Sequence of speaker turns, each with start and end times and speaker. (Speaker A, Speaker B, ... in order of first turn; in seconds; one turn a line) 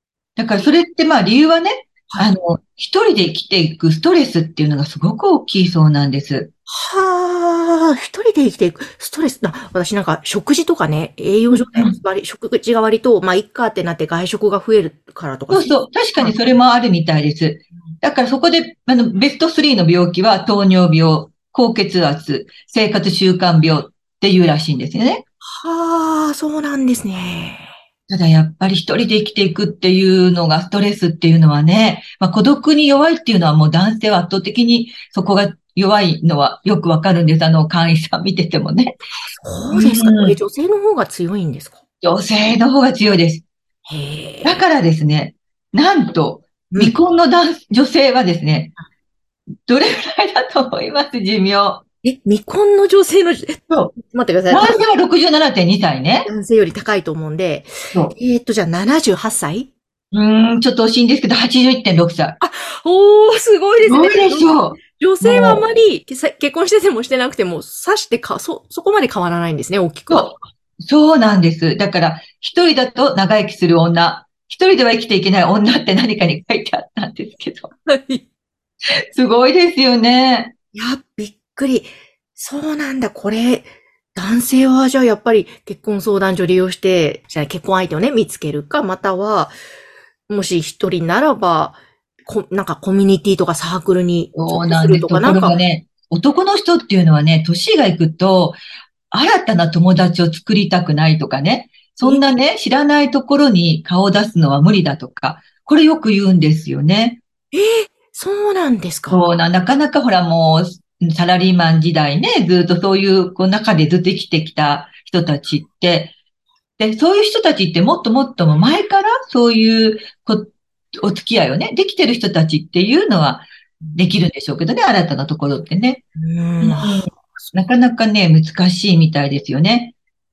Speaker A: 0.4-6.5
Speaker B: 6.7-16.6
Speaker A: 11.5-12.0
Speaker A: 15.5-25.2
Speaker B: 25.6-27.7
Speaker A: 28.1-39.0
Speaker B: 39.3-41.8
Speaker A: 39.7-40.4
Speaker A: 42.0-43.5
Speaker B: 43.9-44.6
Speaker A: 44.4-48.7
Speaker B: 46.7-47.0
Speaker A: 49.7-51.8
Speaker B: 52.0-54.8
Speaker A: 54.5-56.3
Speaker B: 56.3-59.7
Speaker A: 60.1-62.4
Speaker B: 62.4-70.3
Speaker A: 63.8-65.7
Speaker A: 70.1-77.7
Speaker B: 77.9-78.2
Speaker A: 79.1-80.5
Speaker B: 80.7-89.6
Speaker B: 90.3-95.6
Speaker A: 94.3-98.6
Speaker A: 99.1-107.2
Speaker B: 107.5-109.2
Speaker A: 109.1-116.2
Speaker A: 116.8-126.0
Speaker B: 123.8-124.1
Speaker B: 126.2-127.5
Speaker A: 126.6-129.9